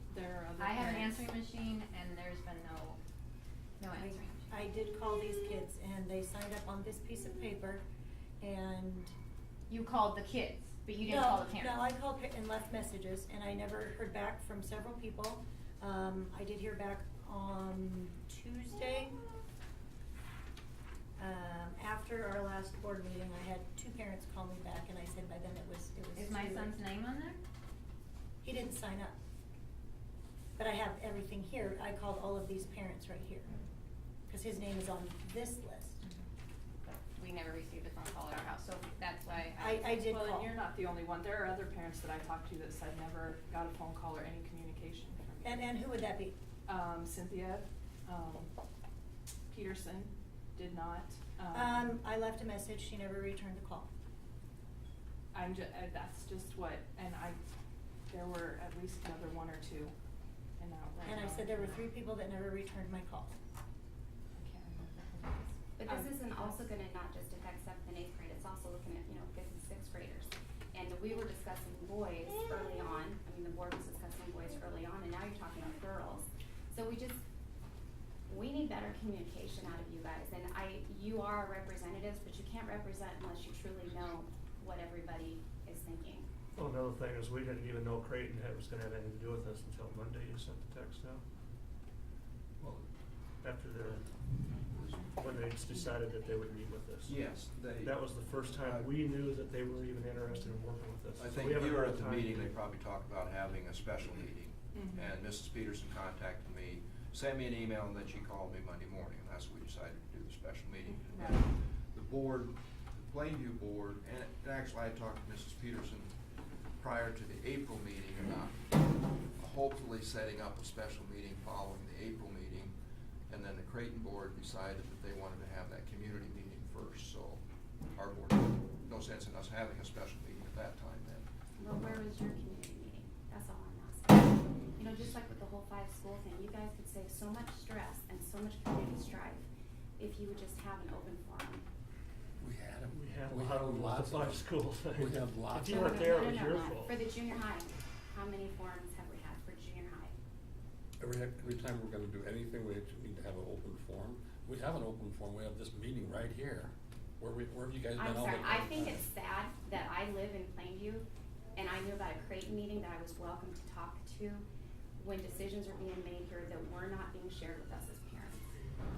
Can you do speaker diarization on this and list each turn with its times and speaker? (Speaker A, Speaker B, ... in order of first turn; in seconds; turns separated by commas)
Speaker A: 0.1-1.3, Speaker B: 0.6-3.0, Speaker B: 3.8-4.5, Speaker C: 4.0-7.8, Speaker C: 8.4-9.1, Speaker B: 9.7-11.8, Speaker C: 11.0-19.2, Speaker C: 21.2-26.8, Speaker B: 26.1-27.4, Speaker C: 28.4-29.1, Speaker C: 30.6-33.5, Speaker C: 34.3-36.0, Speaker B: 36.9-40.1, Speaker C: 39.6-40.5, Speaker A: 40.1-45.6, Speaker C: 45.4-46.3, Speaker A: 46.7-48.5, Speaker A: 49.5-51.9, Speaker C: 51.5-53.9, Speaker A: 55.3-57.4, Speaker A: 58.1-59.9, Speaker A: 60.6-61.8, Speaker C: 61.0-63.4, Speaker D: 65.8-77.2, Speaker A: 65.9-66.5, Speaker D: 78.3-86.3, Speaker E: 86.5-91.2, Speaker E: 93.4-94.1, Speaker F: 94.7-95.1, Speaker E: 95.2-97.1, Speaker F: 97.0-98.9, Speaker E: 97.8-102.5, Speaker F: 101.2-116.1, Speaker A: 104.7-105.1, Speaker A: 111.0-111.4, Speaker F: 116.8-118.6, Speaker F: 119.4-122.7, Speaker F: 123.3-131.3, Speaker D: 131.6-139.5, Speaker D: 140.0-141.7, Speaker G: 142.4-146.1, Speaker E: 142.9-147.0, Speaker D: 145.6-150.1, Speaker G: 151.0-159.0, Speaker D: 157.9-164.4, Speaker D: 165.0-168.5